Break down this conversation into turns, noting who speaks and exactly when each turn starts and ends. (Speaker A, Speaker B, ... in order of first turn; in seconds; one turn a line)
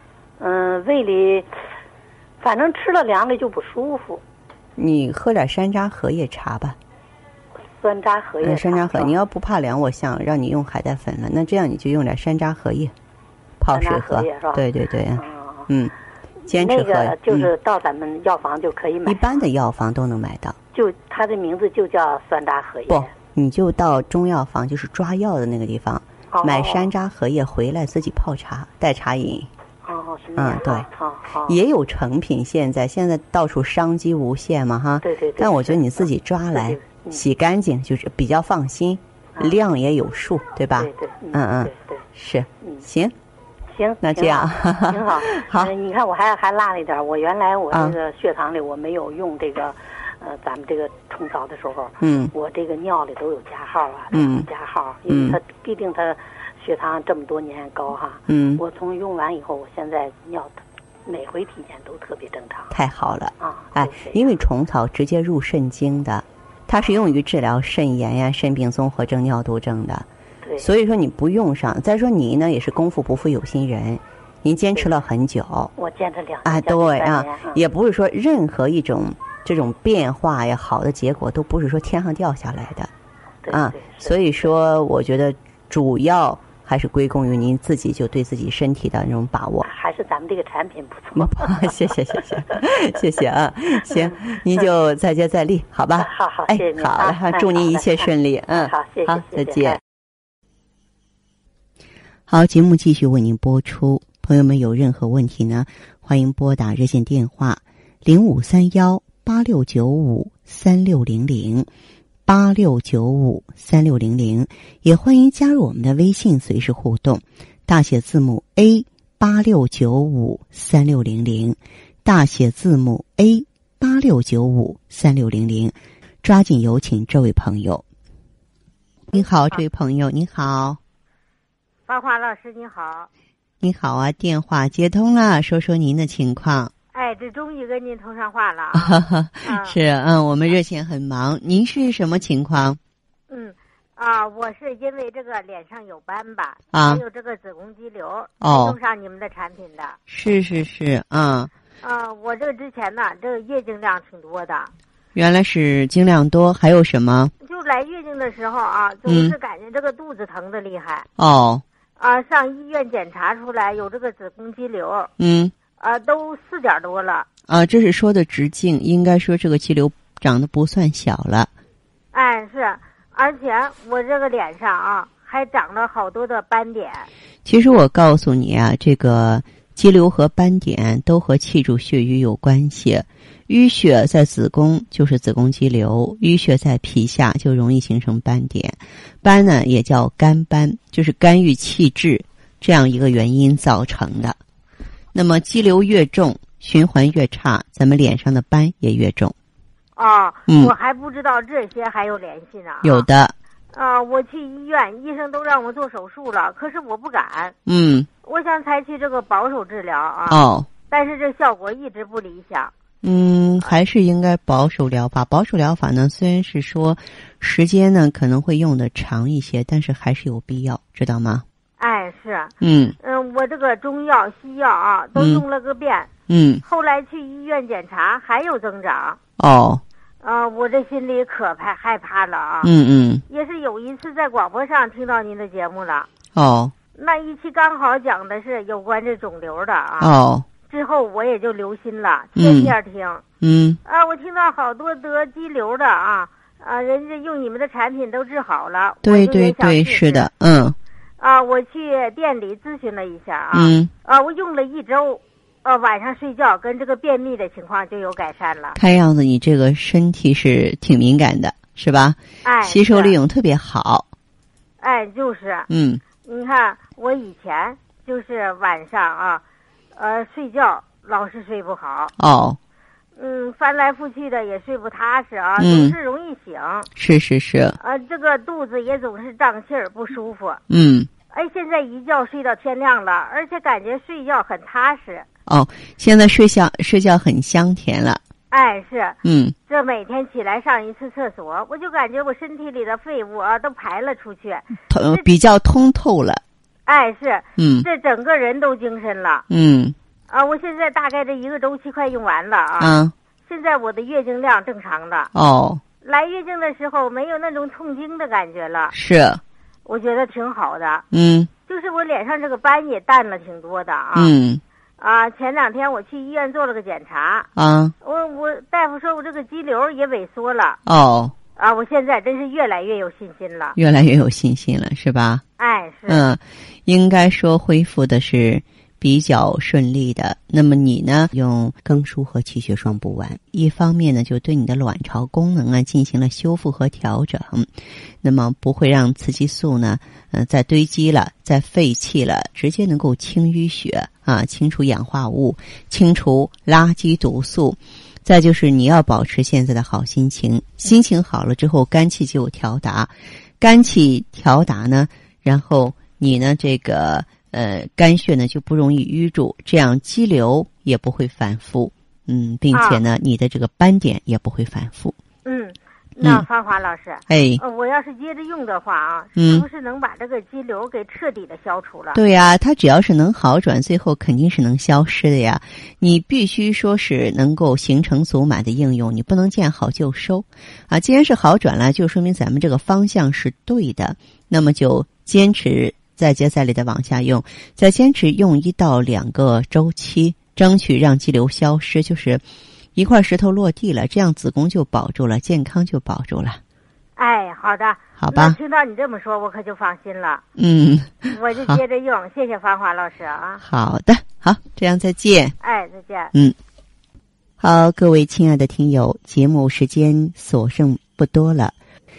Speaker A: 0.4-1.5
Speaker A: 2.4-4.2
Speaker B: 4.8-6.8
Speaker A: 7.7-9.2
Speaker B: 8.4-12.9
Speaker B: 13.6-15.9
Speaker A: 13.7-15.7
Speaker A: 16.5-19.4
Speaker B: 16.5-17.5
Speaker B: 19.0-20.6
Speaker A: 20.7-23.1
Speaker B: 22.9-29.5
Speaker A: 26.3-26.9
Speaker A: 29.8-31.6
Speaker B: 30.4-30.9
Speaker B: 31.4-43.1
Speaker A: 35.0-37.2
Speaker A: 40.8-42.0
Speaker A: 42.6-42.9
Speaker A: 43.7-62.7
Speaker B: 44.0-45.7
Speaker B: 52.0-52.3
Speaker B: 54.1-54.5
Speaker B: 55.1-55.4
Speaker B: 58.3-58.6
Speaker B: 62.7-70.0
Speaker A: 63.4-64.3
Speaker A: 70.4-70.7
Speaker B: 70.6-75.7
Speaker A: 75.8-77.6
Speaker B: 76.4-82.9
Speaker A: 83.4-84.2
Speaker B: 83.5-89.7
Speaker A: 89.6-91.7
Speaker B: 91.1-99.8
Speaker A: 93.9-94.6
Speaker A: 96.0-99.8
Speaker B: 102.3-111.7
Speaker B: 112.2-127.8
Speaker B: 129.1-130.8
Speaker C: 129.1-129.6
Speaker C: 131.9-133.1
Speaker B: 133.6-136.7
Speaker C: 136.9-139.8
Speaker B: 138.7-142.8
Speaker C: 143.3-150.0
Speaker B: 146.7-147.0
Speaker B: 148.4-148.8
Speaker B: 150.1-151.5
Speaker C: 151.8-154.7
Speaker B: 155.1-157.3
Speaker C: 157.4-161.1
Speaker B: 159.1-159.3
Speaker B: 161.2-161.6
Speaker C: 162.0-165.1
Speaker B: 165.2-165.5
Speaker C: 165.8-167.3
Speaker B: 167.5-171.5
Speaker C: 172.1-177.1
Speaker B: 177.4-194.4
Speaker B: 195.1-199.3
Speaker C: 199.9-203.1
Speaker B: 200.5-200.7
Speaker B: 202.8-203.3
Speaker C: 203.7-207.5
Speaker B: 207.7-208.1
Speaker C: 208.2-212.7
Speaker B: 210.3-210.7
Speaker B: 213.0-221.4
Speaker C: 221.8-226.1
Speaker B: 222.6-222.9
Speaker B: 225.1-225.4
Speaker B: 226.3-226.6
Speaker C: 226.6-229.2
Speaker B: 229.4-229.8
Speaker C: 230.2-232.7
Speaker B: 232.6-233.2
Speaker C: 233.3-236.1
Speaker B: 236.3-236.7
Speaker C: 236.9-240.1
Speaker B: 240.0-240.5
Speaker C: 240.7-243.2
Speaker B: 242.3-242.7
Speaker B: 243.4-243.8
Speaker C: 243.8-250.3
Speaker B: 249.0-250.8
Speaker C: 251.2-258.8
Speaker B: 253.5-253.9
Speaker B: 258.8-264.1
Speaker C: 262.4-263.2
Speaker C: 264.8-265.7
Speaker B: 265.7-266.0
Speaker C: 266.2-269.4
Speaker C: 269.9-272.1
Speaker B: 272.2-272.6
Speaker C: 273.1-276.9
Speaker B: 275.6-275.9
Speaker B: 276.9-277.8
Speaker C: 277.8-280.6
Speaker B: 280.7-281.1
Speaker C: 281.3-285.2
Speaker B: 285.5-288.2
Speaker C: 288.5-295.3
Speaker B: 289.2-289.6
Speaker B: 294.9-296.4
Speaker C: 296.9-299.4
Speaker B: 297.6-297.9
Speaker B: 299.5-299.9
Speaker C: 300.3-305.3
Speaker B: 302.8-303.1
Speaker B: 305.3-305.8
Speaker C: 306.0-308.9
Speaker B: 308.9-309.4
Speaker C: 309.8-311.0
Speaker B: 311.1-311.5
Speaker C: 311.7-314.3
Speaker B: 314.1-314.6
Speaker C: 315.0-317.5
Speaker B: 317.6-317.9
Speaker C: 318.0-320.8
Speaker B: 320.9-321.3
Speaker C: 321.6-323.8
Speaker B: 323.8-325.4
Speaker C: 325.6-326.2
Speaker B: 326.1-337.7
Speaker B: 338.2-365.1
Speaker C: 362.7-363.1
Speaker C: 365.4-372.2
Speaker B: 366.2-366.4
Speaker B: 367.3-367.6
Speaker B: 369.4-369.6
Speaker B: 372.1-392.4
Speaker B: 392.9-396.6
Speaker C: 397.1-400.4
Speaker B: 398.2-398.6
Speaker B: 400.6-401.8
Speaker C: 401.3-403.6
Speaker B: 403.6-405.6
Speaker C: 405.6-406.3
Speaker B: 407.6-411.7